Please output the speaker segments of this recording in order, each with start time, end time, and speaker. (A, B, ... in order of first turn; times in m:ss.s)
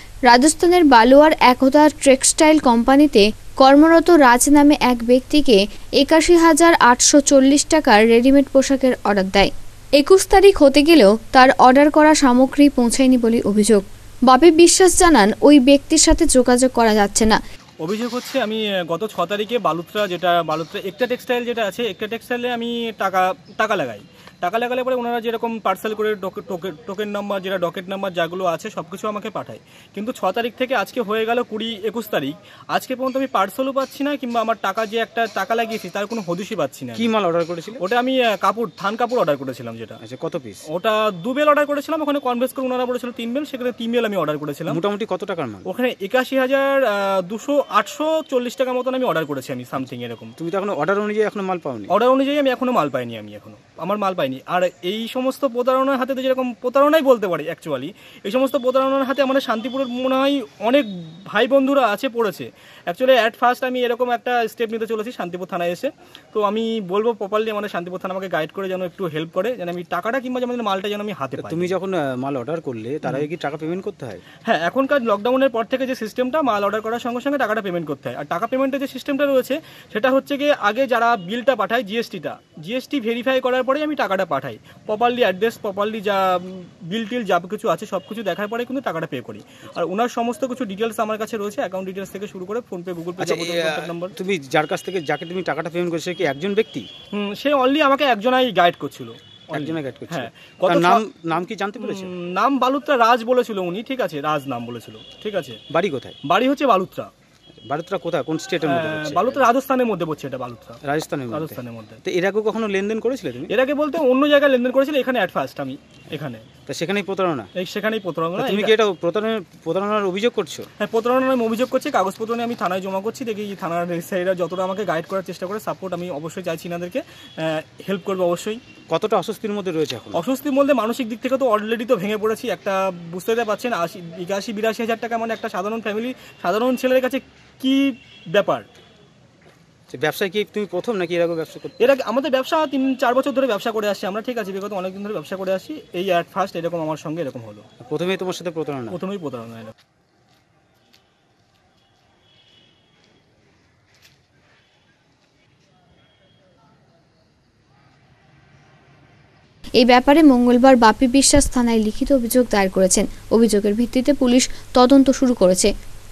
0:00.3-0:17.4 A
0:17.8-0:37.1 B
0:37.0-0:37.8 C
0:37.8-0:40.0 B
0:40.0-0:40.6 C
0:40.7-0:44.8 B
0:44.7-0:45.7 C
0:45.7-0:50.3 B
0:50.4-0:51.9 C
0:51.9-1:11.8 B
1:11.4-1:14.2 C
1:14.4-1:34.2 B
1:33.2-1:36.9 C
1:37.1-1:41.0 B
1:39.5-1:42.1 C
1:41.8-1:45.6 B
1:45.7-1:46.2 C
1:46.3-1:47.1 B
1:47.7-1:49.4 C
1:48.6-1:50.8 B
1:50.8-1:53.5 C
1:51.3-1:52.0 B
1:53.5-1:56.4 B
1:56.7-1:57.5 C
1:57.6-1:58.7 B
1:58.4-2:00.7 C
2:00.8-2:08.6 B
2:08.9-2:10.2 C
2:10.1-2:18.7 B
2:19.9-2:21.9 C
2:21.8-2:27.6 B
2:27.8-2:29.0 C
2:28.9-2:29.7 B
2:39.8-2:45.7 A